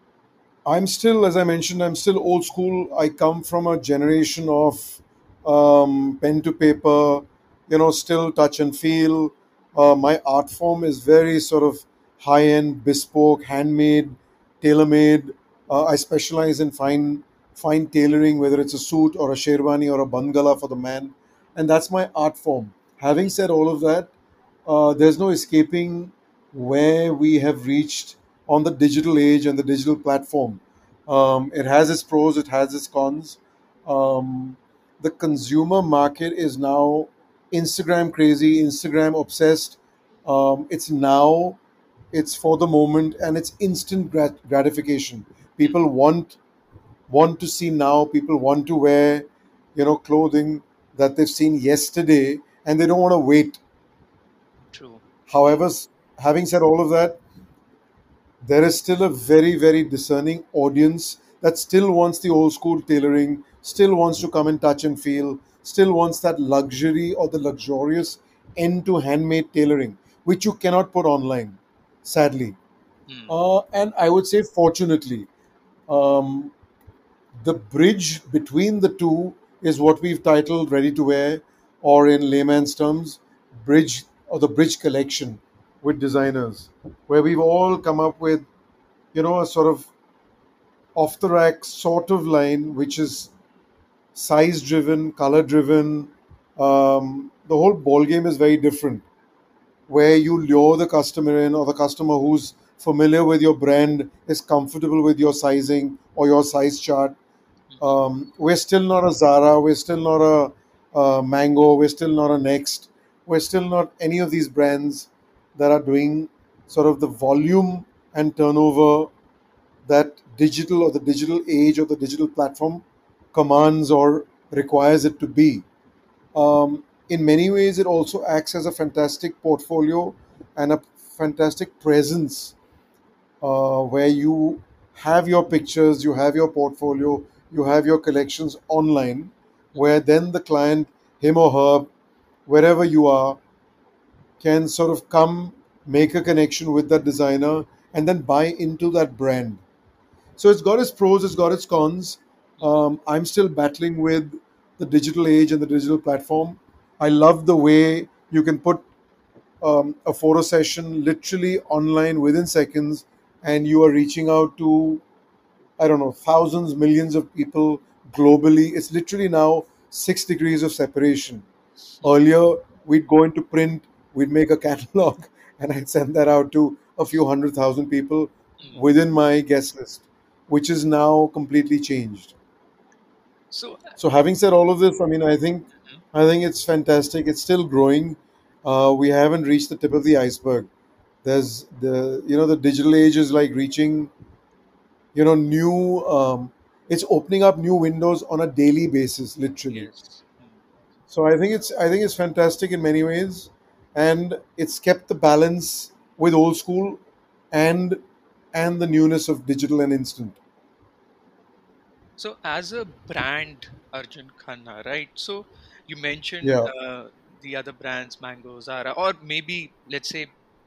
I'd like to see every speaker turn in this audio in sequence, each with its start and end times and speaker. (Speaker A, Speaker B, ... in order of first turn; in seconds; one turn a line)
Speaker A: 0.7-24.1
Speaker A: 24.6-41.6
Speaker A: 42.1-46.4
Speaker A: 47.1-53.6
Speaker B: 54.7-55.0
Speaker A: 55.3-57.2
Speaker A: 58.4-72.6
Speaker B: 73.1-73.3
Speaker A: 73.3-75.3
Speaker A: 75.9-76.5
Speaker A: 77.4-88.5
Speaker A: 89.1-89.9
Speaker A: 90.9-93.3
Speaker A: 94.1-99.0
Speaker A: 99.9-107.2
Speaker A: 107.8-119.1
Speaker A: 119.8-125.6
Speaker A: 126.3-132.5
Speaker A: 133.4-141.9
Speaker A: 142.5-143.4
Speaker A: 144.4-149.6
Speaker A: 150.4-158.8
Speaker A: 159.6-165.0
Speaker A: 165.8-171.4
Speaker A: 172.0-182.3
Speaker B: 183.5-184.0
Speaker A: 184.0-190.7
Speaker A: 191.2-194.1
Speaker A: 195.1-199.9
Speaker B: 199.7-200.3
Speaker A: 201.1-207.0
Speaker A: 207.5-208.0
Speaker A: 208.5-210.4
Speaker B: 212.2-220.3
Speaker A: 216.4-216.7